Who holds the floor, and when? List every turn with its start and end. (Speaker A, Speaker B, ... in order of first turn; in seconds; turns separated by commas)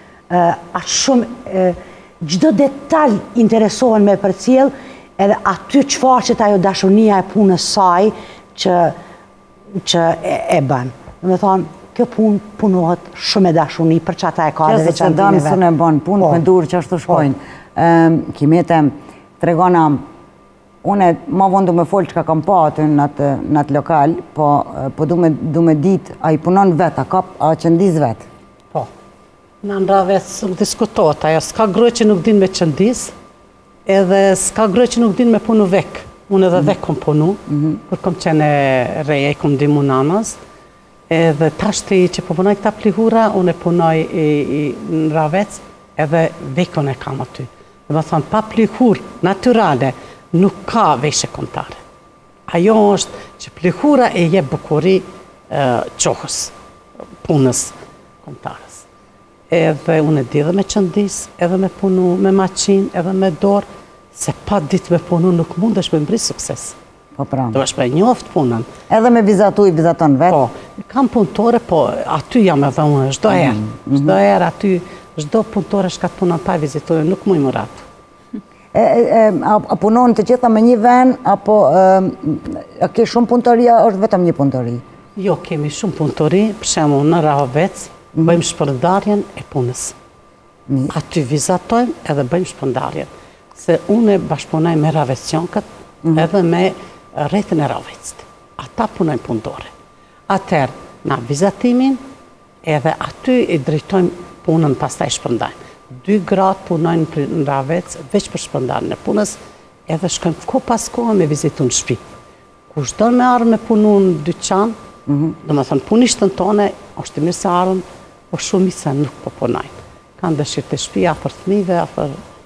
Speaker A: 0.3-8.9, Speaker A: 9.8-15.6, Speaker B: 14.6-20.0, Speaker B: 20.8-28.2, Speaker C: 29.6-33.1, Speaker C: 33.9-40.4, Speaker C: 41.1-51.8, Speaker C: 52.5-56.5, Speaker C: 57.2-58.8, Speaker C: 59.5-66.8, Speaker B: 67.2-67.6, Speaker C: 67.5-68.7, Speaker B: 68.9-70.4, Speaker C: 70.3-77.8, Speaker B: 73.3-74.2, Speaker B: 78.7-84.8, Speaker C: 85.2-90.0, Speaker B: 90.7-91.0, Speaker C: 90.9-99.7, Speaker C: 100.3-102.0, Speaker C: 102.6-109.4, Speaker C: 109.9-112.0, Speaker C: 112.7-114.8, Speaker B: 115.1-115.4, Speaker C: 115.4-122.2